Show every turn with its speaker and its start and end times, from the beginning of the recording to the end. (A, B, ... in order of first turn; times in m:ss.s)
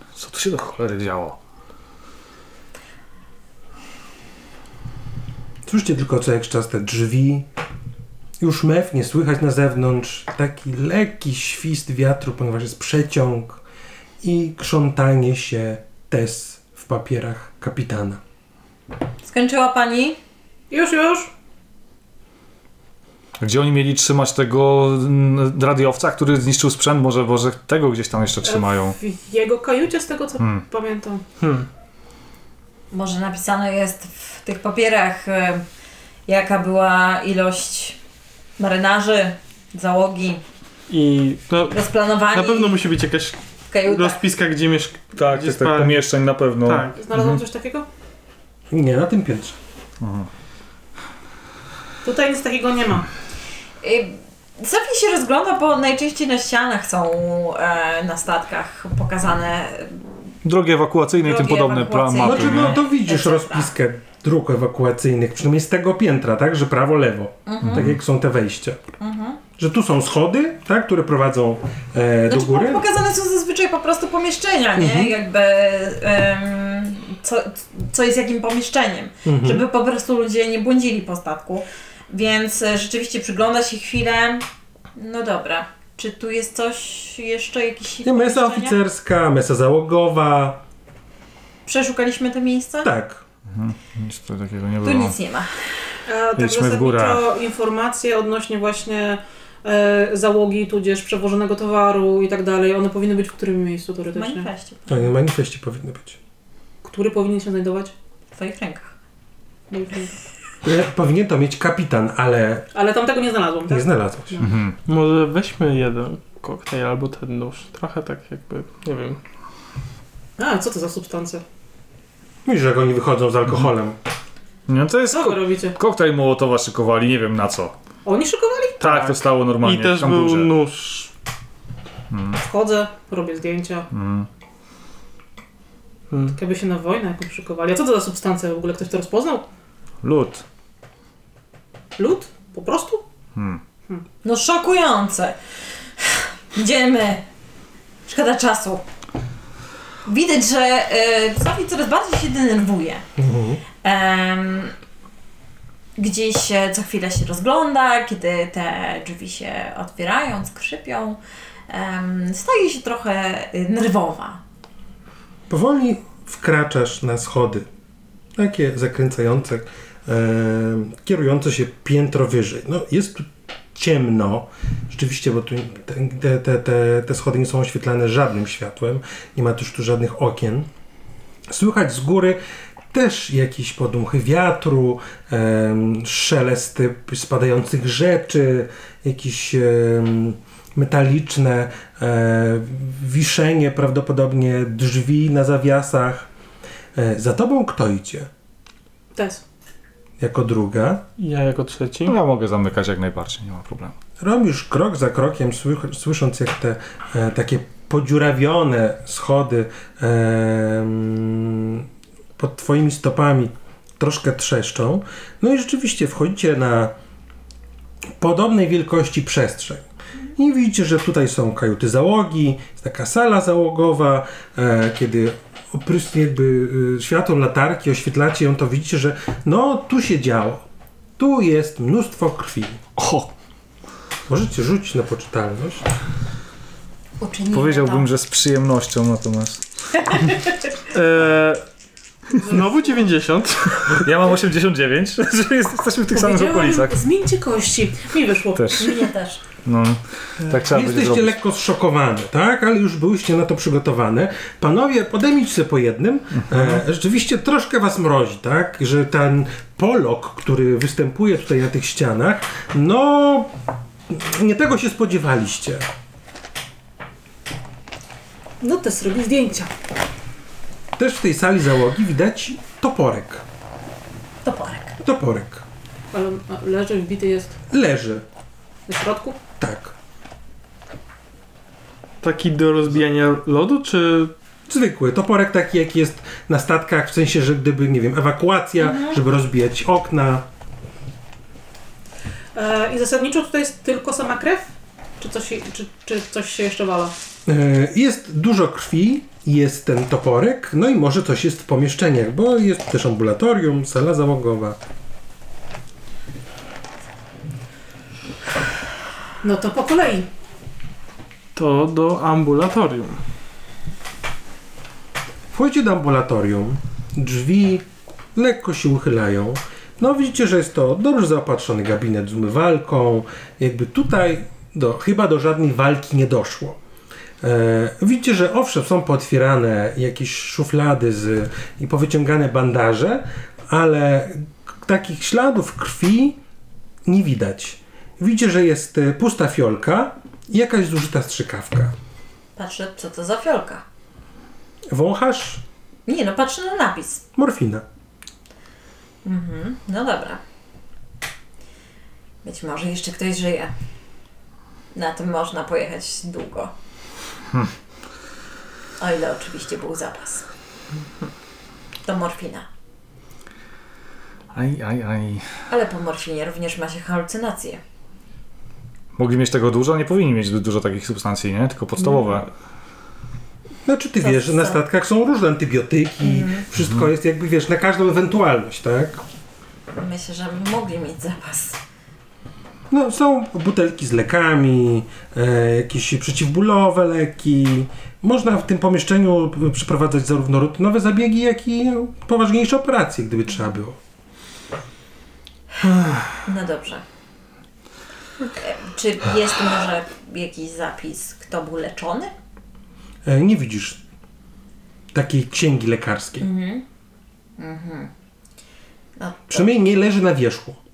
0:00.2-0:01.4 A
0:05.6-0:07.5 B
0:08.4-0:13.6 B
0:14.2-0:18.2 B
0:19.2-0:20.2 C
0:20.7-0:21.3 D
0:23.4-0:29.0 A
0:28.4-0:31.2 D
0:31.4-0:31.7 E
0:32.9-0:35.6 C
0:36.3-0:38.0 C
0:38.6-0:40.4 C
0:40.9-0:41.8 E
0:41.7-0:42.8 C
0:42.3-0:46.0 E
0:43.7-0:44.2 C
0:45.2-0:47.4 A
0:46.6-0:47.0 E
0:47.0-0:47.8 D
0:48.7-0:49.6 B
0:50.0-0:50.3 A
0:52.0-0:53.1 D
0:53.8-1:00.0 C
1:00.4-1:02.8 A
1:01.2-1:03.7 C
1:02.2-1:08.8 B
1:07.4-1:07.9 C
1:07.6-1:08.0 A
1:09.0-1:09.4 C
1:09.6-1:12.8 B
1:12.3-1:28.8 C
1:14.8-1:15.1 B
1:19.2-1:19.6 B
1:28.0-1:30.6 B
1:31.6-1:32.9 C
1:32.8-1:33.2 B
1:33.5-1:35.1 A
1:34.8-1:35.5 C
1:36.1-1:44.5 D
1:36.4-1:37.2 A
1:44.1-1:45.0 C
1:44.9-1:46.2 B
1:46.8-1:47.9 D
1:48.3-1:48.9 C
1:49.7-1:50.1 D
1:50.6-1:52.7 B
1:52.7-1:54.5 D
1:53.7-1:54.4 B
1:54.4-1:54.8 A
1:54.8-1:59.2 E
2:00.4-2:01.4 D
2:02.4-2:04.0 B
2:04.7-2:07.7 A
2:05.1-2:05.8 D
2:08.0-2:08.9 D
2:08.8-2:10.5 A
2:08.8-2:11.1 E
2:12.1-2:12.4 A
2:12.4-2:13.9 D
2:13.9-2:14.3 A
2:16.1-2:16.4 E
2:16.4-2:19.4 D
2:20.0-2:20.4 A
2:22.0-2:23.0 D
2:23.4-2:23.6 A
2:24.2-2:25.4 C
2:26.0-2:27.2 C
2:28.1-2:28.8 C
2:30.0-2:33.0 C
2:33.2-2:33.6 B
2:33.8-2:34.7 C
2:36.0-2:44.4 C
2:45.5-2:47.7 B
2:48.4-3:00.7 B
3:01.5-3:02.4 B
3:02.9-3:16.3 B
3:16.9-3:18.3 B
3:19.1-3:19.4 D
3:20.2-3:21.0 B
3:21.2-3:22.2 E
3:22.0-3:23.9 A
3:24.2-3:31.8 B
3:32.4-3:36.9 B
3:38.2-3:50.6 B
3:51.2-3:52.8 B
3:53.0-3:53.3 A
3:54.3-3:55.9 B
3:57.2-3:58.1 C
3:57.5-3:59.6 A
4:00.9-4:01.6 E
4:02.4-4:02.9 D
4:02.4-4:04.1 E
4:03.9-4:07.0 A
4:06.1-4:09.1 D
4:08.6-4:08.9 A
4:08.8-4:09.4 C
4:09.6-4:11.4 A
4:10.6-4:23.5 B
4:16.4-4:16.8 A
4:24.1-4:25.9 B
4:28.6-4:29.7 D
4:31.0-4:33.4 B
4:34.4-4:35.0 C
4:35.0-4:35.6 B
4:36.1-4:37.6 D
4:37.7-4:38.2 B
4:38.9-4:39.4 D
4:39.6-4:39.9 B
4:42.2-4:44.3 E
4:44.7-4:50.5 B
4:52.5-4:57.1 D
4:57.4-5:04.8 B
5:09.4-5:10.3 D
5:11.5-5:13.2 E
5:15.5-5:26.8 B
5:27.4-5:36.4 B
5:37.0-5:41.9 B
5:42.6-5:43.8 C
5:44.9-5:45.6 B
5:46.0-5:47.2 C
5:47.4-5:47.8 B
5:49.2-5:50.4 C
5:52.4-5:53.7 C
5:54.9-5:56.7 C
5:59.0-6:00.4 C
6:02.0-6:02.7 C
6:04.5-6:05.5 A
6:05.7-6:07.8 C
6:09.2-6:12.5 A
6:13.8-6:19.2 B
6:14.2-6:14.8 C
6:16.2-6:16.6 C
6:19.9-6:21.8 C
6:22.9-6:34.0 B
6:36.4-6:37.0 C
6:38.6-6:42.3 C
6:43.2-6:44.0 B
6:45.1-6:46.5 B
6:46.4-6:46.8 C
6:47.6-6:48.1 C
6:49.2-6:49.7 C
6:49.5-6:50.8 B